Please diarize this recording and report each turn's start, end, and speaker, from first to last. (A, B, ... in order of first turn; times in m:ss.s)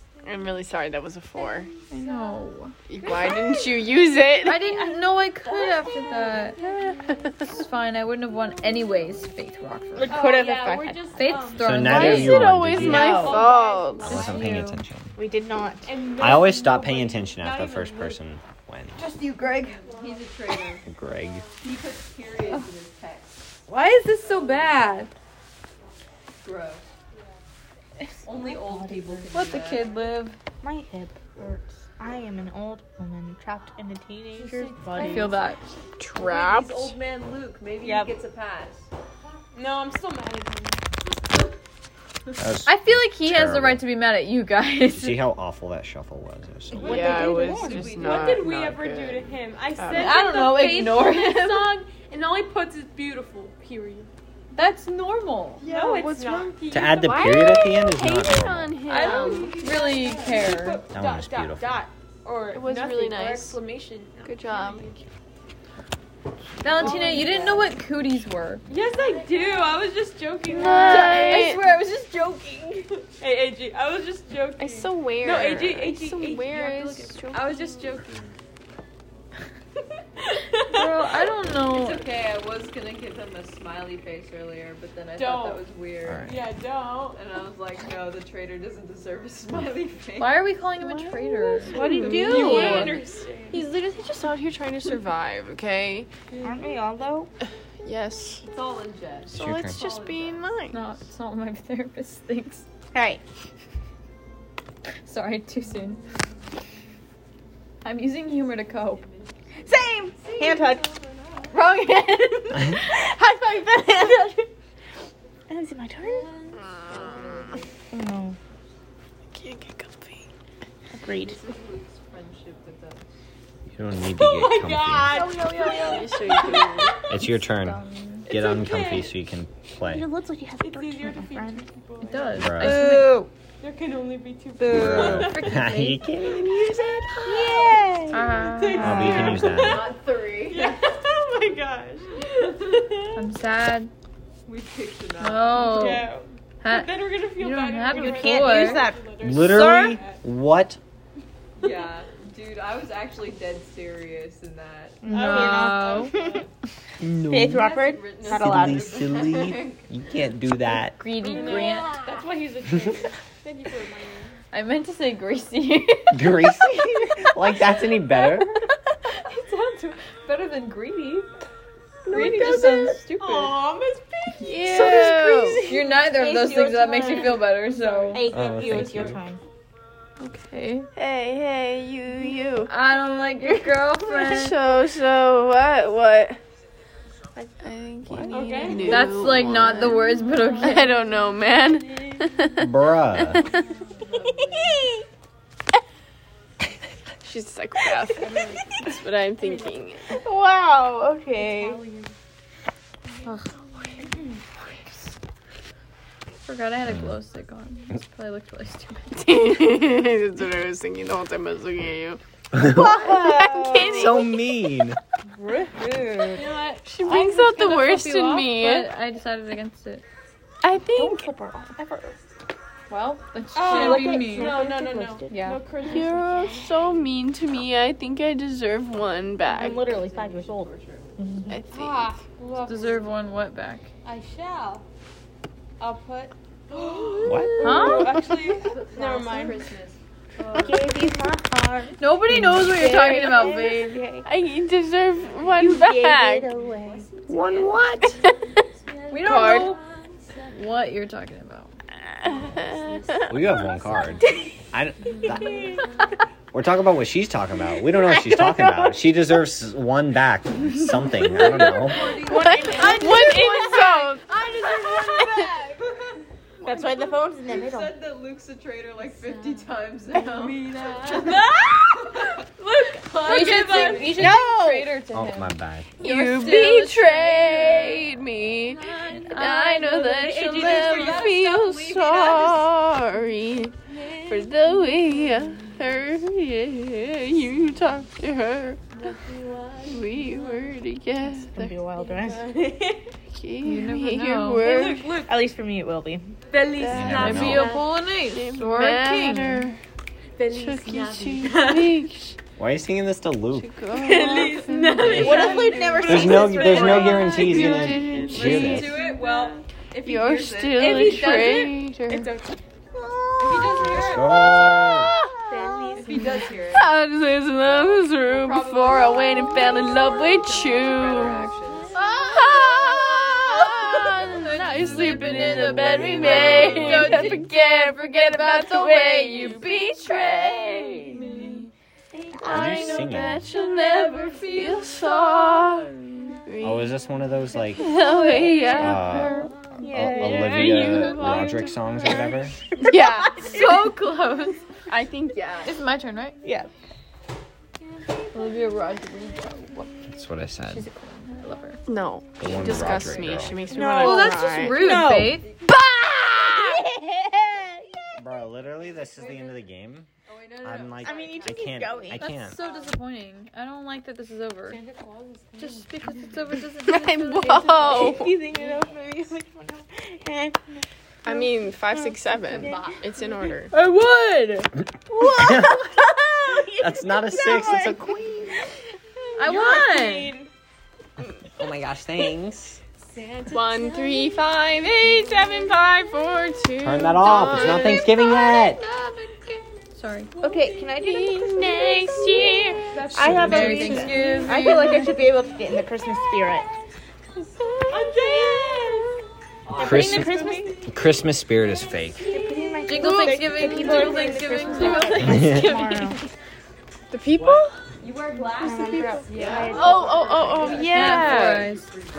0:00.2-0:01.7 A
0:01.9-0:02.7 B
0:02.9-0:04.7 A
0:04.4-0:06.6 B
0:06.3-0:07.0 C
0:07.4-0:10.3 B
0:10.0-0:11.0 D
0:10.1-0:12.0 C
0:11.2-0:12.6 B
0:11.6-0:13.2 E
0:11.7-0:14.3 A
0:12.7-0:14.5 C
0:12.8-0:13.5 D
0:14.0-0:14.8 B
0:14.0-0:15.2 E
0:15.2-0:16.0 D
0:15.8-0:18.2 C
0:16.2-0:19.0 E
0:19.0-0:19.8 B
0:19.6-0:20.9 F
0:19.8-0:20.4 C
0:20.8-0:21.5 E
0:21.1-0:21.6 C
0:21.6-0:23.6 F
0:23.7-0:25.1 B
0:24.3-0:24.8 C
0:26.4-0:26.9 F
0:28.2-0:30.0 F
0:28.3-0:29.3 D
0:29.3-0:30.4 B
0:30.6-0:35.3 D
0:34.4-0:35.4 C
0:35.0-0:35.7 B
0:36.0-0:37.0 A
0:36.2-0:38.9 F
0:37.8-0:38.1 D
0:39.5-0:40.8 C
0:42.4-0:43.8 E
0:42.7-0:45.3 B
0:44.9-0:46.9 E
0:46.7-0:48.7 F
0:46.8-0:50.2 A
0:46.8-0:54.1 C
0:46.8-0:47.8 D
0:50.0-0:51.8 B
0:54.5-0:55.6 B
0:55.6-0:57.7 C
0:55.6-0:59.6 A
0:56.7-0:58.8 E
0:58.9-1:00.8 B
0:58.9-1:05.0 C
0:59.0-1:00.4 F
1:00.9-1:01.8 E
1:02.5-1:03.6 A
1:04.2-1:04.9 A
1:06.6-1:08.6 B
1:06.7-1:07.6 C
1:07.2-1:07.6 D
1:08.7-1:11.5 C
1:09.1-1:09.9 F
1:10.5-1:12.9 B
1:10.5-1:11.6 A
1:13.2-1:18.3 C
1:14.6-1:17.7 A
1:17.3-1:18.2 F
1:20.5-1:21.1 C
1:20.7-1:22.1 B
1:21.6-1:26.4 F
1:25.1-1:25.7 C
1:26.1-1:26.4 E
1:26.2-1:27.2 C
1:27.1-1:30.6 F
1:30.2-1:33.0 B
1:31.7-1:33.7 C
1:31.7-1:36.1 A
1:32.4-1:32.8 F
1:36.3-1:36.6 C
1:36.4-1:37.3 D
1:37.8-1:38.4 A
1:38.5-1:40.8 F
1:39.3-1:40.8 A
1:39.3-1:39.8 E
1:40.7-1:42.6 B
1:42.9-1:43.2 D
1:45.1-1:46.0 B
1:47.8-1:49.0 B
1:48.5-1:51.7 C
1:49.6-1:50.9 D
1:51.5-1:52.8 B
1:52.7-1:54.5 D
1:55.5-1:56.3 D
1:56.0-1:57.7 F
1:56.5-1:57.6 A
1:57.9-1:58.4 D
1:59.3-2:00.3 A
2:00.9-2:01.4 D
2:01.1-2:03.1 F
2:03.7-2:05.1 E
2:04.1-2:06.9 C
2:05.1-2:06.4 D
2:05.8-2:06.9 A
2:07.1-2:10.1 E
2:07.2-2:08.3 B
2:08.3-2:09.2 C
2:09.8-2:11.6 D
2:10.6-2:12.5 C
2:12.0-2:13.2 B
2:12.4-2:12.9 E
2:12.6-2:13.3 D
2:13.6-2:15.3 C
2:14.6-2:15.3 D
2:14.7-2:16.5 E
2:14.9-2:16.0 B
2:16.2-2:17.8 A
2:16.7-2:23.2 C
2:17.3-2:19.6 D
2:18.1-2:19.3 B
2:18.8-2:19.9 E
2:19.5-2:20.9 F
2:22.6-2:22.9 F
2:23.1-2:23.9 B
2:24.5-2:26.0 F
2:25.2-2:26.1 B
2:25.6-2:30.2 C
2:26.6-2:28.9 B
2:27.9-2:30.0 D
2:29.2-2:30.8 E
2:31.6-2:35.1 F
2:35.0-2:36.4 D
2:35.1-2:36.2 B
2:35.1-2:36.5 C
2:37.0-2:41.0 E
2:37.2-2:39.1 D
2:37.5-2:39.9 F
2:41.0-2:42.0 B
2:41.2-2:44.4 C
2:41.3-2:41.6 F
2:44.5-2:46.6 B
2:46.1-2:48.6 E
2:47.9-2:48.2 C
2:49.2-2:51.3 B
2:52.1-2:55.9 C
2:52.1-2:53.6 B
2:54.4-2:55.7 A
2:54.6-2:57.5 D
2:55.7-2:58.3 B
2:57.2-2:58.3 C
2:58.1-2:59.4 D
2:58.3-2:59.2 E
3:00.2-3:00.9 B
3:01.0-3:02.7 A
3:02.7-3:04.6 B
3:03.4-3:03.7 D
3:04.1-3:06.4 A
3:07.6-3:13.6 A
3:08.3-3:12.1 C
3:08.7-3:11.0 B
3:12.6-3:13.4 E
3:13.3-3:14.4 C
3:14.4-3:14.7 D
3:14.5-3:14.9 F
3:17.2-3:20.2 A
3:18.2-3:19.8 C
3:20.1-3:21.8 D
3:21.3-3:22.1 C
3:23.3-3:23.6 B
3:26.4-3:29.4 B
3:26.9-3:27.2 E
3:29.2-3:32.2 A
3:32.5-3:33.1 E
3:32.6-3:34.3 D
3:33.0-3:34.5 A
3:33.8-3:35.0 E
3:35.3-3:36.6 D
3:36.4-3:36.8 C
3:36.8-3:38.9 A
3:37.0-3:40.0 B
3:40.6-3:41.3 A
3:40.9-3:42.2 D
3:42.9-3:44.6 B
3:43.6-3:47.1 C
3:43.6-3:45.5 D
3:45.3-3:45.6 B
3:45.8-3:49.9 A
3:49.5-3:51.4 F
3:49.5-3:51.6 D
3:51.5-3:52.2 A
3:51.7-3:53.1 C
3:52.6-3:53.9 B
3:54.0-3:54.9 C
3:55.8-3:59.7 C
3:57.2-3:57.7 F
3:57.2-3:57.6 E
3:57.6-3:58.1 B
3:57.7-3:58.6 D
3:58.5-4:01.1 F
3:59.2-3:59.6 D
4:00.4-4:00.9 C
4:00.5-4:04.3 D
4:02.0-4:04.0 B
4:03.0-4:03.5 A
4:04.2-4:06.5 A
4:05.6-4:07.1 D
4:07.2-4:08.0 F
4:07.3-4:08.2 E
4:08.2-4:08.6 A
4:09.1-4:09.8 B
4:09.1-4:09.8 C
4:09.2-4:09.8 A
4:10.5-4:11.7 B
4:12.2-4:13.3 A
4:12.9-4:14.2 C
4:13.3-4:15.8 E
4:15.1-4:15.9 C
4:15.3-4:15.8 D
4:16.5-4:22.2 E
4:18.1-4:18.9 D
4:21.3-4:24.0 D
4:21.4-4:23.7 F
4:22.3-4:24.3 A
4:22.6-4:23.0 C
4:24.3-4:25.8 C
4:24.3-4:34.2 F
4:24.9-4:25.3 D
4:26.6-4:28.0 D
4:29.2-4:29.6 C
4:30.1-4:31.7 C
4:32.6-4:34.2 C
4:33.2-4:38.0 B
4:34.1-4:34.9 D
4:35.1-4:35.9 E
4:36.0-4:48.8 A
4:38.8-4:39.1 C
4:39.1-4:41.0 B
4:40.1-4:42.7 F
4:40.7-4:41.2 C
4:43.9-4:46.0 C
4:49.0-4:50.7 C
4:49.9-4:51.7 A
4:51.5-4:52.5 D
4:52.0-4:53.1 C
4:53.3-4:55.1 A
4:53.6-4:54.8 B
4:54.6-4:55.5 C
4:55.3-4:56.4 D
4:56.5-4:57.9 C
4:56.8-4:57.5 A
4:56.9-4:57.7 E
4:57.2-4:59.7 B
4:58.3-4:59.8 A
5:00.4-5:01.9 C
5:00.5-5:02.4 A
5:02.6-5:03.7 E
5:03.5-5:05.8 A
5:03.9-5:07.9 C
5:05.0-5:08.4 D
5:05.0-5:05.5 E
5:05.2-5:11.8 F
5:06.0-5:09.0 E
5:07.2-5:08.8 A
5:08.4-5:09.6 C
5:10.0-5:12.3 A
5:10.8-5:12.6 C
5:12.9-5:13.8 D
5:13.4-5:14.7 F
5:13.7-5:15.1 E
5:14.8-5:15.9 A
5:15.5-5:16.4 D
5:16.0-5:16.9 F
5:16.0-5:16.4 C
5:16.7-5:31.7 A
5:17.6-5:22.1 F
5:23.8-5:30.3 B
5:26.3-5:27.0 F
5:32.4-5:37.0 A
5:32.4-5:33.5 E
5:34.0-5:34.9 B
5:36.6-5:37.8 E
5:37.7-5:39.5 A
5:37.8-5:39.5 B
5:38.8-5:42.6 E
5:39.8-5:41.4 D
5:40.1-5:41.7 A
5:40.7-5:41.4 B
5:42.8-5:43.7 A
5:42.9-5:43.6 D
5:43.4-5:44.6 B
5:44.9-5:45.7 A
5:45.6-5:46.4 B
5:46.4-5:46.7 D
5:48.3-5:50.1 B
5:50.1-5:50.9 E
5:50.7-5:51.8 B
5:51.9-5:55.1 A
5:52.4-5:53.7 E
5:53.7-5:58.2 D
5:53.8-5:55.4 B
5:56.0-5:56.8 A
5:58.2-6:00.1 E
5:58.8-5:59.6 F
6:00.3-6:03.0 F
6:00.6-6:02.6 E
6:01.0-6:02.5 D
6:02.2-6:04.8 B
6:04.7-6:06.6 C
6:05.6-6:08.2 B
6:06.8-6:08.4 A
6:07.9-6:12.9 D
6:08.6-6:08.9 C
6:11.2-6:13.7 A
6:12.6-6:13.2 C
6:13.7-6:14.7 B
6:15.1-6:18.7 D
6:15.3-6:15.9 E
6:16.8-6:18.4 E
6:19.3-6:20.5 D
6:19.4-6:20.3 B
6:21.6-6:22.8 E
6:23.2-6:24.3 C
6:23.5-6:29.6 A
6:25.1-6:25.6 C
6:26.8-6:28.8 E
6:29.9-6:30.3 B
6:30.4-6:36.7 D
6:30.5-6:30.8 C
6:30.9-6:32.8 A
6:32.8-6:35.2 C
6:33.3-6:35.2 B
6:37.9-6:39.2 C
6:38.2-6:38.6 D
6:39.7-6:40.8 F
6:39.8-6:40.8 D
6:39.8-6:42.3 E
6:40.3-6:40.8 C
6:42.2-6:46.2 D
6:42.3-6:43.4 C
6:42.9-6:46.2 B
6:43.8-6:45.3 A
6:45.2-6:45.8 E
6:47.1-6:47.8 A
6:48.0-6:51.3 F
6:48.5-6:51.6 D
6:49.7-6:51.7 A
6:50.9-6:51.9 B